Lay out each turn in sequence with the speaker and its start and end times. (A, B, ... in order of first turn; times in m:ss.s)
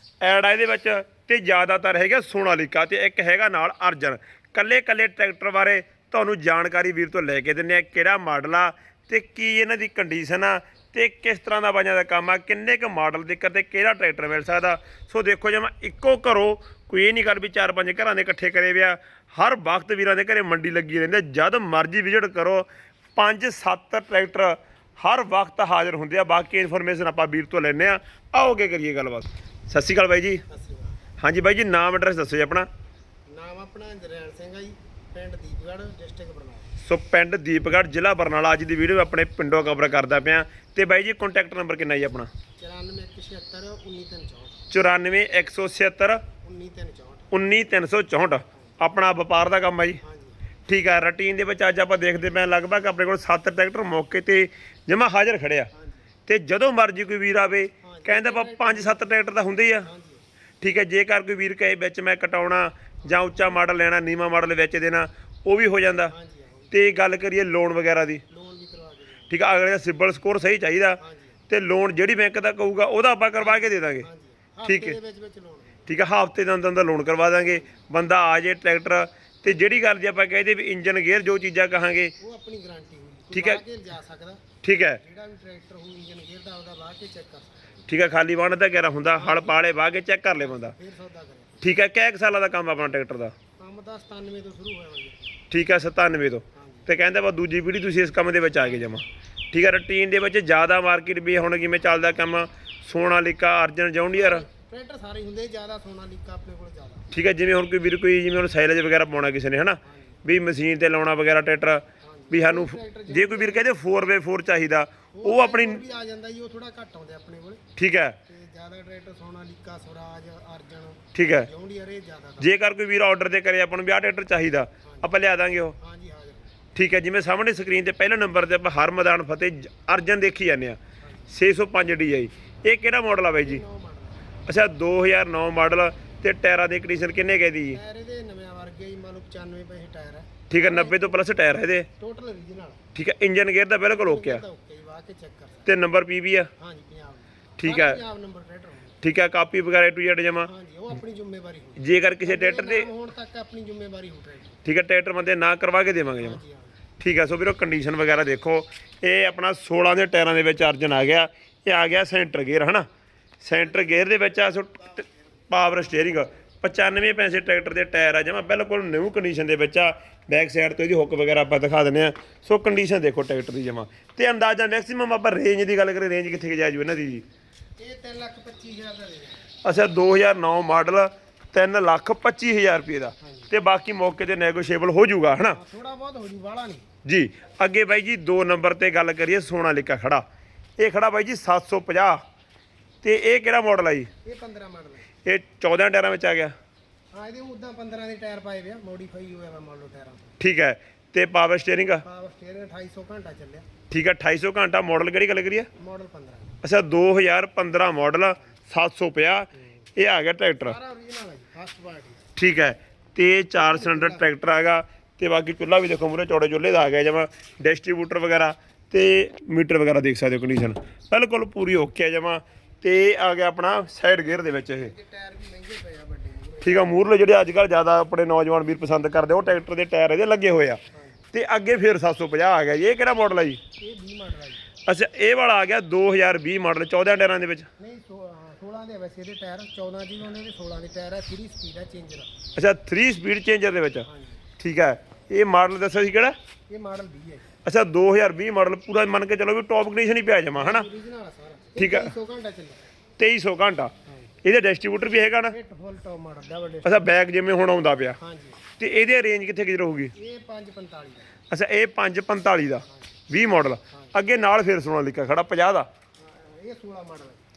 0:00.2-0:30.4 A
0:30.5-0:31.0 B
0:31.2-0:32.7 A
0:33.3-0:36.7 B
0:36.8-0:42.3 A
0:42.6-0:44.7 B
0:44.7-0:46.2 A
0:46.4-0:47.3 B
0:47.3-0:50.0 A
0:50.0-0:50.4 B
0:50.7-0:55.7 A
0:55.7-0:56.1 B
0:56.3-0:59.9 A
0:57.8-0:59.2 B
0:59.8-1:00.2 B
1:00.6-1:06.1 A
1:06.1-1:06.7 B
1:06.7-1:08.2 A
1:08.3-1:09.3 B
1:09.3-1:14.1 A
1:11.0-1:11.4 B
1:13.4-1:15.9 B
1:14.6-1:15.0 A
1:15.9-1:22.1 A
1:17.4-1:17.8 B
1:22.2-1:24.4 B
1:23.3-1:23.6 A
1:24.6-1:25.0 A
1:25.0-1:27.7 B
1:27.9-1:30.7 A
1:29.1-1:29.6 B
1:30.4-1:31.6 B
1:31.6-1:33.4 A
1:33.6-1:35.4 B
1:35.5-1:44.5 A
1:36.5-1:36.9 B
1:44.1-1:47.1 B
1:47.1-1:55.8 A
1:49.8-1:50.2 B
1:52.0-1:53.7 B
1:55.1-1:57.6 B
1:57.8-1:58.2 A
1:58.3-2:02.5 B
2:01.1-2:01.5 A
2:02.4-2:05.8 A
2:05.8-2:06.5 B
2:06.8-2:10.8 A
2:11.0-2:11.3 B
2:11.3-2:13.6 A
2:13.4-2:14.3 B
2:14.5-2:17.8 A
2:17.7-2:21.3 B
2:20.5-2:21.9 A
2:21.9-2:22.8 B
2:23.0-2:24.4 A
2:24.0-2:25.7 B
2:25.7-2:26.5 A
2:26.6-2:29.0 B
2:27.6-2:28.0 A
2:29.0-2:30.5 A
2:30.4-2:34.6 B
2:31.8-2:32.9 A
2:34.6-2:36.4 A
2:36.2-2:36.8 B
2:37.0-2:42.9 A
2:43.4-2:57.2 A
2:57.8-2:59.5 B
2:59.6-3:05.6 A
3:03.2-3:03.5 B
3:05.5-3:06.9 B
3:07.0-3:10.2 A
3:10.8-3:12.2 A
3:13.0-3:14.1 A
3:14.2-3:15.1 B
3:15.2-3:16.6 A
3:17.1-3:20.3 B
3:20.4-3:22.0 A
3:22.0-3:23.7 B
3:23.9-3:25.7 A
3:25.8-3:26.6 B
3:26.6-3:30.8 A
3:30.6-3:32.3 B
3:32.4-3:44.9 A
3:33.6-3:34.2 B
3:44.8-3:47.0 B
3:46.6-3:50.8 A
3:50.9-3:51.2 B
3:51.3-3:53.6 A
3:53.8-3:54.7 B
3:54.9-3:57.7 A
3:57.8-4:02.3 B
4:02.6-4:04.1 A
4:04.1-4:04.4 B
4:04.6-4:06.3 A
4:06.7-4:07.5 B
4:07.6-4:10.9 A
4:10.6-4:12.8 B
4:11.8-4:12.1 A
4:13.2-4:13.9 A
4:14.1-4:14.3 B
4:14.4-4:15.6 A
4:15.5-4:17.1 B
4:16.8-4:18.2 A
4:18.2-4:18.6 B
4:18.8-4:20.1 A
4:20.2-4:21.4 B
4:21.5-4:25.9 A
4:23.9-4:24.1 B
4:26.2-4:27.5 B